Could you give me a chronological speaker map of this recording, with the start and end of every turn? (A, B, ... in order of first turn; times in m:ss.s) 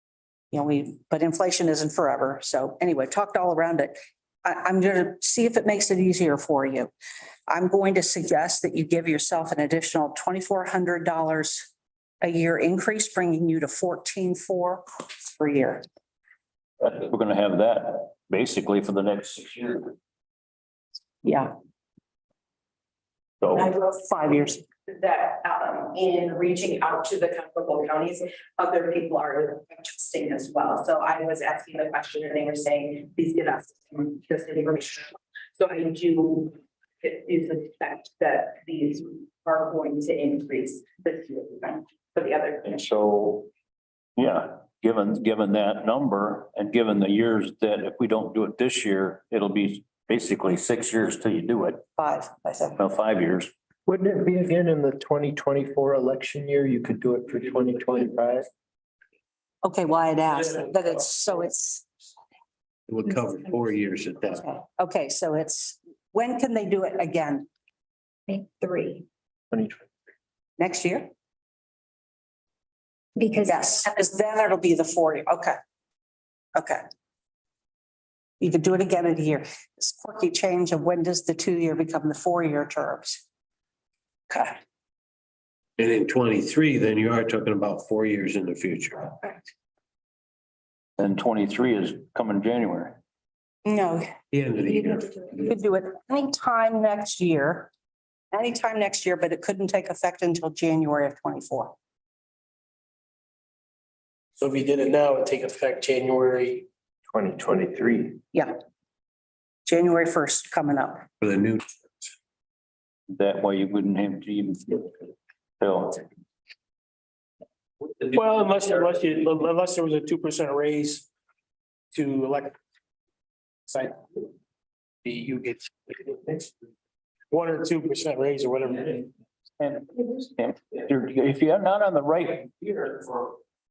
0:00.5-0:06.9 A
0:07.5-0:11.7 A
0:12.2-0:15.8 A
0:16.8-0:19.9 B
0:21.2-0:21.5 A
0:23.4-0:23.7 B
0:23.6-0:24.6 A
0:24.9-0:43.0 C
0:43.1-0:43.4 B
0:44.2-0:51.8 B
0:52.0-0:52.8 A
0:52.8-0:53.5 B
0:53.9-0:58.4 D
0:59.6-1:01.9 A
1:02.9-1:04.4 E
1:04.4-1:07.5 A
1:08.3-1:09.0 F
1:09.5-1:09.8 D
1:10.6-1:11.1 A
1:13.2-1:13.9 F
1:13.4-1:15.6 A
1:16.6-1:16.8 A
1:18.4-1:23.2 A
1:25.8-1:29.4 E
1:31.0-1:33.0 B
1:33.6-1:34.1 A
1:34.3-1:35.1 E
1:34.7-1:35.5 F
1:35.4-1:37.7 A
1:38.3-1:41.7 A
1:44.4-1:46.6 G
1:47.1-1:48.2 D
1:49.6-1:51.0 A
1:51.2-1:51.6 E
1:53.1-1:56.0 B
1:58.1-2:01.1 G
2:01.9-2:02.6 G
2:03.7-2:04.2 G
2:05.0-2:06.5 G
2:07.3-2:09.1 G
2:09.6-2:13.4 B